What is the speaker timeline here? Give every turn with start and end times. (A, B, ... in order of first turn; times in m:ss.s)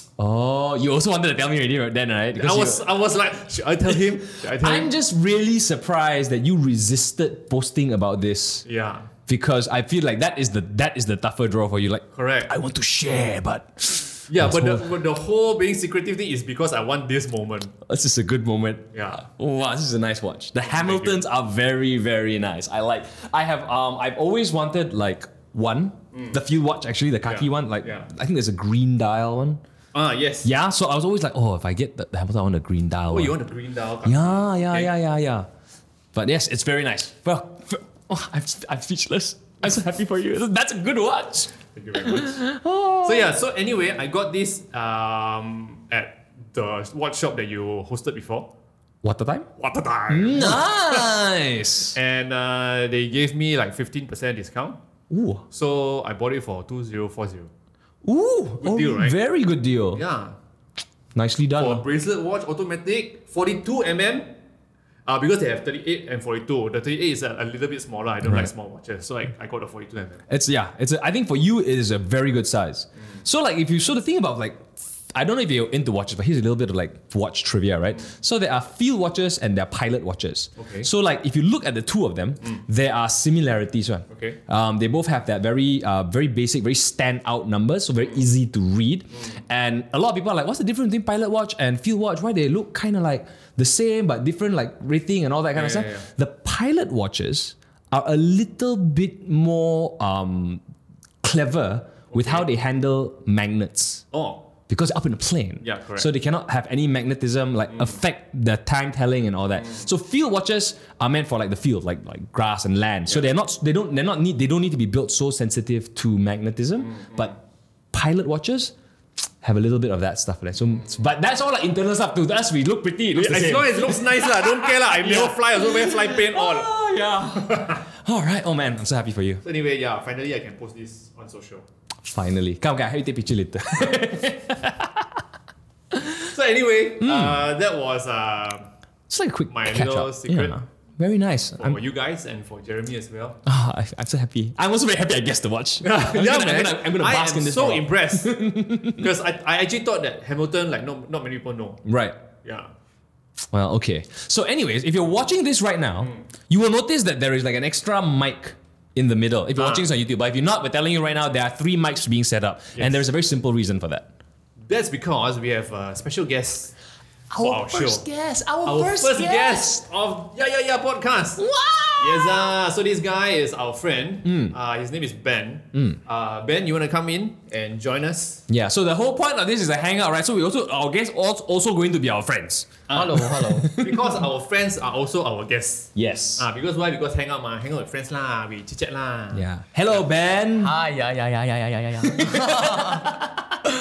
0:00.2-0:02.9 A
0:02.4-0:04.9 B
0:04.1-0:08.6 A
0:08.6-0:09.1 B
0:09.3-0:14.9 A
0:12.1-0:12.5 B
0:14.3-0:17.7 B
0:17.9-0:29.6 A
0:18.9-0:19.2 B
0:20.7-0:21.2 B
0:26.1-0:26.4 B
0:27.2-0:28.1 B
0:29.9-0:30.5 B
0:30.4-0:33.4 A
0:33.1-0:34.9 B
0:34.0-0:35.5 A
0:36.1-0:43.3 A
0:41.7-0:42.4 B
0:43.0-0:48.5 B
0:49.0-0:49.5 A
0:49.6-0:51.1 B
0:50.1-0:52.0 A
0:51.9-0:54.8 B
0:55.1-0:55.4 A
0:55.5-0:57.5 B
0:58.0-1:00.0 A
0:58.6-0:59.2 B
0:59.9-1:00.4 B
1:01.2-1:01.8 A
1:01.6-1:04.3 B
1:05.1-1:10.2 B
1:08.2-1:08.5 A
1:10.3-1:40.6 A
1:20.6-1:20.9 B
1:24.1-1:24.4 B
1:35.5-1:36.1 B
1:41.2-1:44.0 A
1:42.1-1:42.5 B
1:44.1-1:44.5 B
1:44.7-1:57.3 A
1:45.6-1:46.1 B
1:47.7-1:48.0 B
1:49.6-1:49.9 B
1:56.8-1:57.3 B
1:57.9-1:58.7 A
1:59.4-2:09.4 A
2:03.1-2:06.7 B
2:07.3-2:07.8 B
2:09.4-2:11.6 B
2:12.0-2:15.1 A
2:16.2-2:18.7 B
2:17.0-2:17.5 A
2:19.1-2:21.8 A
2:19.5-2:20.6 B
2:21.6-2:23.4 B
2:23.5-2:29.1 A
2:25.8-2:28.4 B
2:28.9-2:31.8 B
2:31.9-2:32.2 A
2:32.4-2:32.7 B
2:33.5-2:44.1 A
2:39.6-2:39.9 B
2:42.8-2:43.0 B
2:44.7-2:46.7 B
2:47.3-2:49.8 A
2:47.4-2:48.1 B
2:48.6-2:51.4 B
2:51.4-2:52.5 A
2:52.0-2:58.4 B
2:54.2-2:54.6 A
2:55.7-2:56.0 A
2:58.5-3:04.2 A
3:02.9-3:09.4 B
3:02.9-3:03.7 C
3:06.0-3:06.5 A
3:09.3-3:10.8 A
3:10.6-3:13.2 C
3:12.0-3:13.5 A